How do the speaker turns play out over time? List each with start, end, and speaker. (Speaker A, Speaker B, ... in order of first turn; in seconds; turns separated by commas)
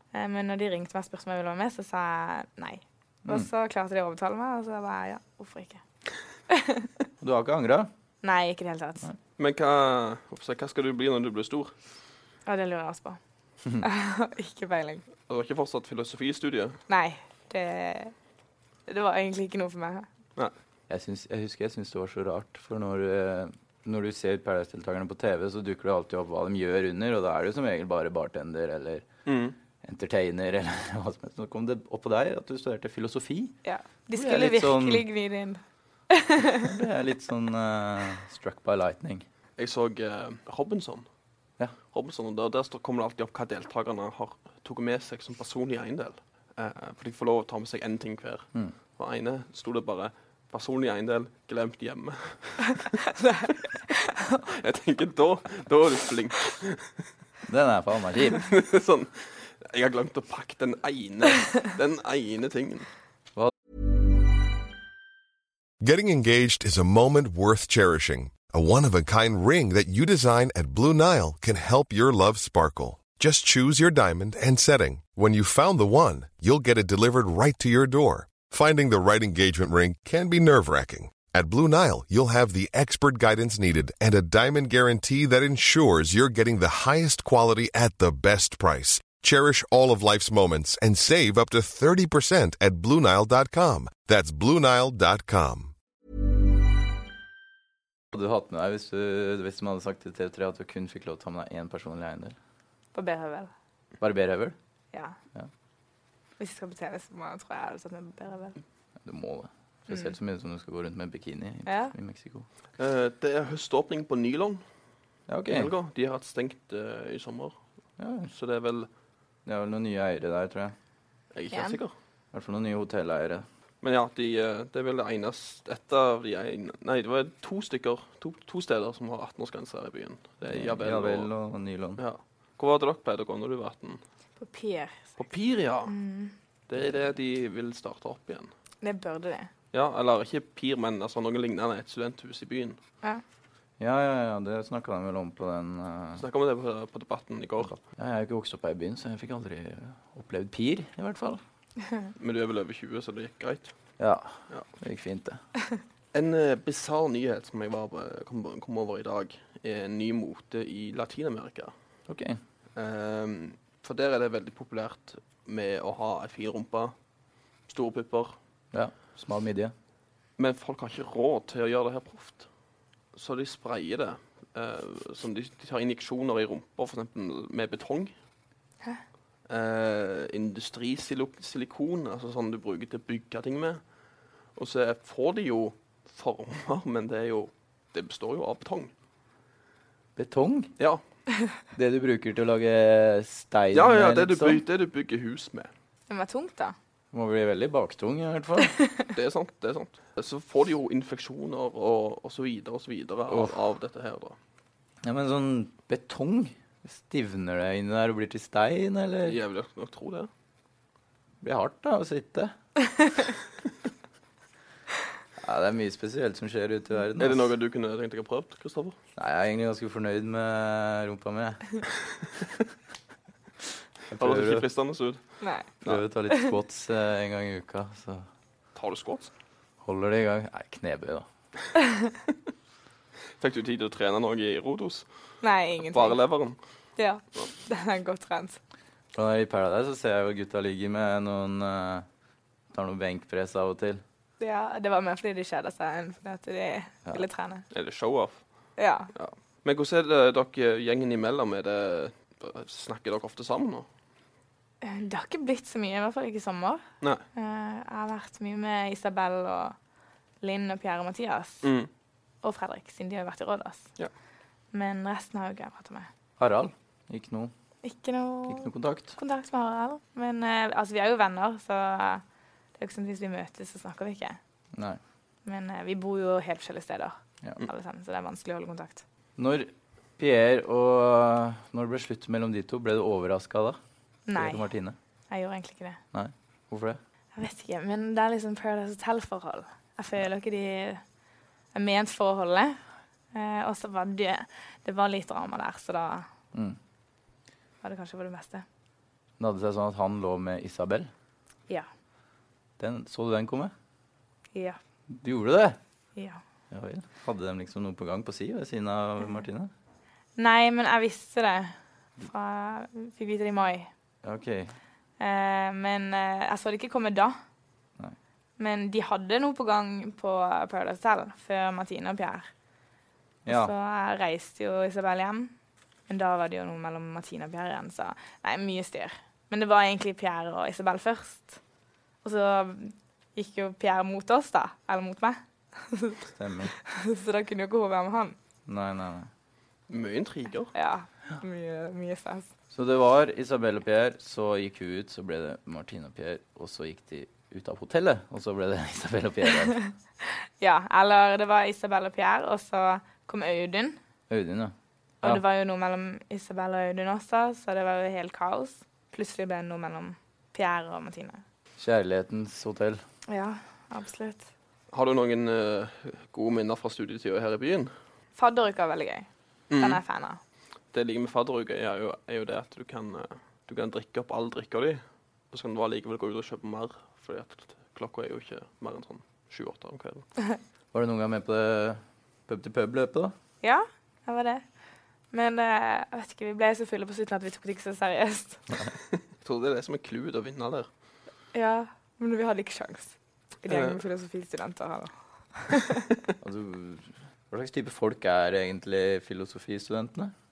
Speaker A: 0.1-5.8, Speaker A: 6.5-6.9, Speaker B: 7.2-7.9, Speaker A: 8.2-9.0, Speaker C: 9.4-11.7, Speaker A: 12.4-13.2, Speaker A: 13.8-15.0, Speaker C: 15.3-16.8, Speaker A: 16.9-18.1, Speaker A: 18.9-20.1, Speaker B: 20.9-29.1, Speaker C: 29.2-29.5, Speaker B: 29.8-33.5, Speaker A: 33.6-36.7, Speaker B: 34.1-35.0, Speaker B: 36.6-39.2, Speaker C: 39.6-41.0, Speaker C: 41.9-53.0, Speaker A: 53.2-54.4, Speaker C: 54.4-57.0, Speaker B: 57.5-58.5, Speaker C: 58.3-62.9, Speaker D: 65.8-95.7, Speaker B: 98.1-102.3, Speaker A: 102.9-103.5, Speaker B: 104.0-104.5, Speaker A: 106.4-108.6, Speaker B: 109.0-112.5, Speaker A: 111.7-111.9, Speaker C: 112.8-114.6, Speaker B: 115.3-115.7, Speaker C: 115.5-117.5, Speaker B: 118.0-118.3, Speaker C: 118.3-118.9, Speaker B: 119.5-120.7, Speaker C: 121.3-121.9, Speaker A: 121.5-121.8, Speaker B: 122.3-123.5, Speaker C: 123.8-131.3, Speaker B: 130.4-132.0, Speaker C: 132.0-134.0, Speaker A: 134.4-135.2, Speaker C: 135.2-135.9, Speaker A: 135.8-136.3, Speaker C: 136.7-138.5, Speaker A: 138.8-139.5, Speaker C: 139.7-142.8, Speaker B: 143.8-146.2, Speaker C: 146.2-147.8, Speaker B: 147.9-151.4, Speaker C: 152.2-153.7, Speaker B: 154.0-155.4, Speaker C: 156.1-161.7, Speaker B: 162.1-162.4, Speaker C: 162.8-166.9, Speaker C: 167.7-168.3, Speaker B: 168.7-169.7, Speaker C: 170.4-172.5, Speaker C: 173.1-178.1, Speaker C: 179.5-183.8, Speaker C: 184.6-188.9, Speaker B: 190.2-190.7, Speaker B: 191.7-194.6, Speaker C: 193.7-195.7, Speaker A: 196.1-196.7, Speaker B: 197.1-198.7, Speaker A: 198.7-199.1, Speaker C: 199.1-204.3, Speaker B: 203.3-203.5, Speaker B: 205.0-209.4, Speaker C: 209.2-210.3, Speaker B: 211.4-212.5, Speaker B: 215.4-217.5, Speaker C: 217.2-218.9, Speaker B: 219.2-221.8, Speaker B: 224.1-224.6, Speaker C: 224.1-225.2, Speaker A: 225.4-225.7, Speaker B: 225.8-228.2, Speaker C: 228.7-229.3, Speaker B: 229.8-231.2, Speaker A: 231.8-232.0, Speaker C: 233.4-235.0, Speaker A: 235.4-236.2, Speaker C: 235.8-236.6, Speaker A: 237.0-238.6, Speaker B: 239.1-242.0, Speaker B: 242.7-244.0, Speaker A: 244.4-247.7, Speaker C: 247.7-248.4, Speaker A: 248.8-249.1, Speaker C: 249.1-253.8, Speaker A: 254.8-256.8, Speaker A: 257.3-259.8, Speaker A: 260.4-261.7, Speaker C: 261.6-261.9, Speaker A: 262.4-263.9, Speaker A: 264.7-266.1, Speaker B: 266.4-267.5, Speaker A: 267.8-272.2, Speaker B: 268.5-269.1, Speaker A: 272.8-274.4, Speaker B: 274.7-275.0, Speaker A: 275.4-279.0, Speaker B: 279.4-283.8, Speaker A: 284.3-284.6, Speaker B: 284.4-284.9, Speaker A: 285.3-286.0, Speaker B: 286.1-287.0, Speaker A: 287.3-291.0, Speaker A: 291.7-292.8, Speaker A: 293.3-296.2, Speaker B: 296.5-296.8, Speaker A: 297.8-298.6, Speaker B: 299.4-301.1, Speaker B: 302.8-303.7, Speaker B: 305.1-305.8, Speaker B: 306.7-309.7, Speaker A: 310.4-313.9, Speaker B: 314.2-314.8, Speaker A: 315.2-317.4, Speaker A: 318.6-322.5, Speaker B: 323.4-323.7, Speaker A: 323.4-325.5, Speaker A: 326.1-331.6, Speaker A: 332.2-338.4, Speaker B: 336.3-336.7, Speaker B: 338.6-339.3, Speaker C: 339.9-340.7, Speaker A: 340.7-342.5, Speaker B: 342.7-349.8, Speaker A: 350.3-354.0, Speaker B: 354.3-355.4, Speaker A: 355.2-361.4, Speaker B: 361.8-363.0, Speaker A: 363.3-364.5, Speaker C: 364.9-367.9, Speaker A: 368.4-369.3, Speaker C: 369.7-370.0, Speaker A: 369.8-370.4, Speaker C: 370.9-380.2, Speaker B: 380.9-383.3, Speaker A: 383.6-384.6, Speaker A: 385.3-388.6, Speaker C: 389.4-390.9, Speaker A: 391.5-396.1, Speaker C: 393.7-394.0, Speaker B: 396.4-400.3